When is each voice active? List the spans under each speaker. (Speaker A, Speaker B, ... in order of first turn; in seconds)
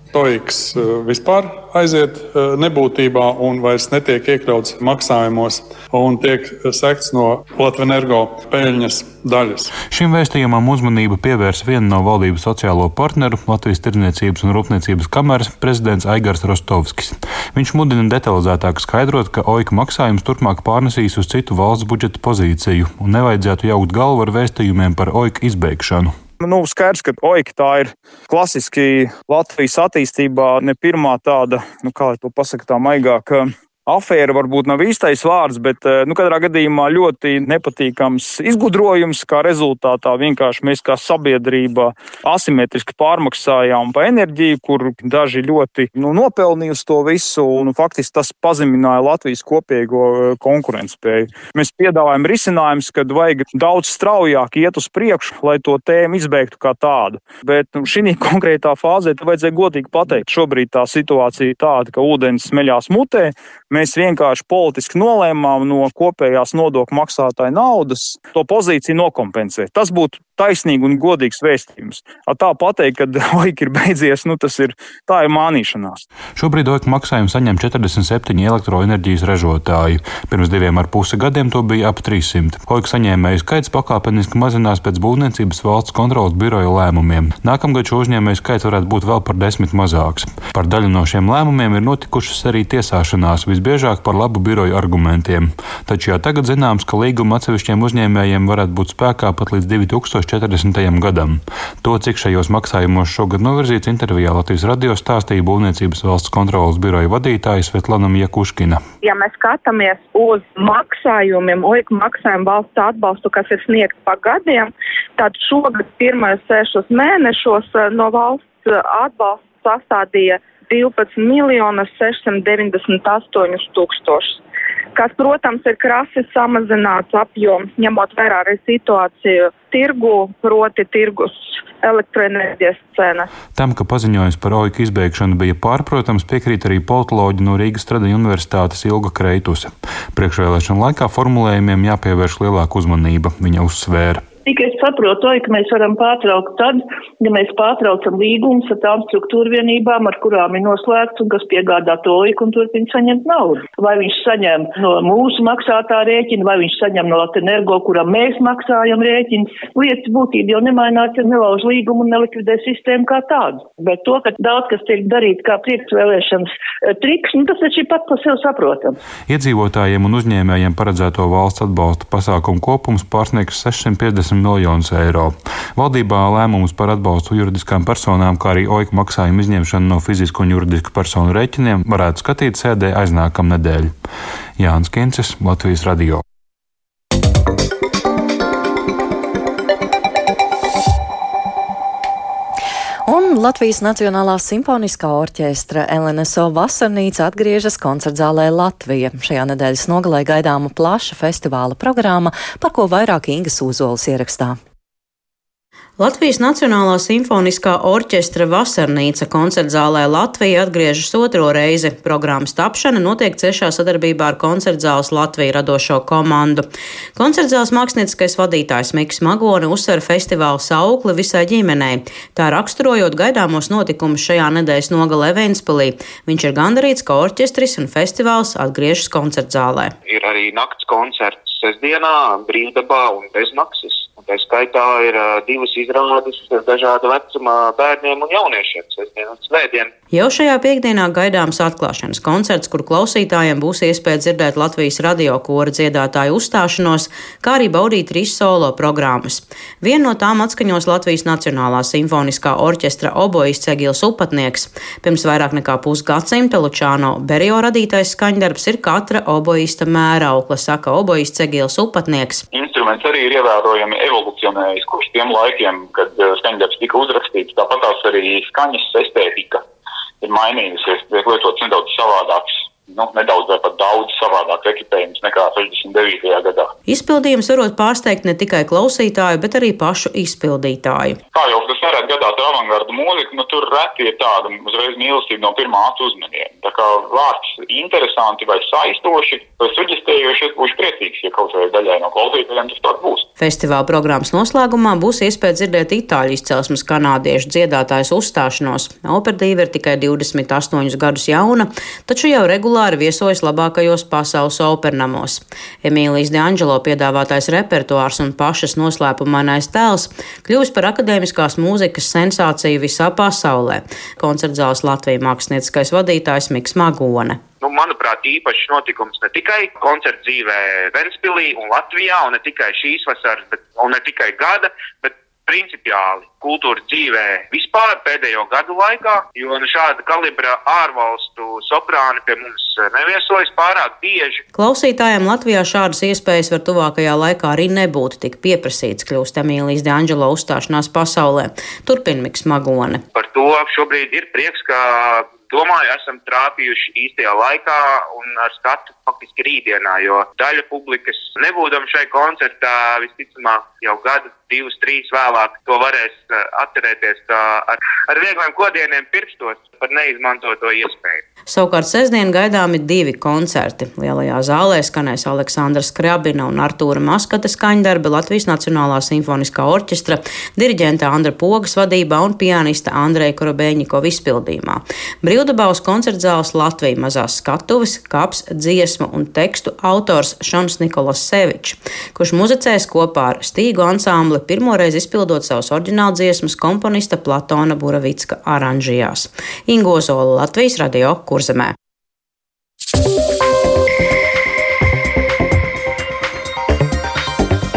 Speaker A: 0.1-9.8
Speaker B: 9.8-26.1, 76.4-108.8, 133.6-144.2, 169.3-183.9, 184.6-186.2
Speaker C: 26.4-76.0
Speaker D: 109.0-124.4, 125.0-133.3
Speaker E: 144.5-169.0
Speaker F: 193.1-204.6
Speaker G: 206.0-229.9, 240.1-262.4, 276.9-281.2, 293.4-317.4, 334.5-343.0, 361.5-391.8
Speaker H: 230.1-239.9, 317.6-334.4, 343.1-361.2
Speaker I: 262.5-269.6, 270.2-276.7, 281.3-293.3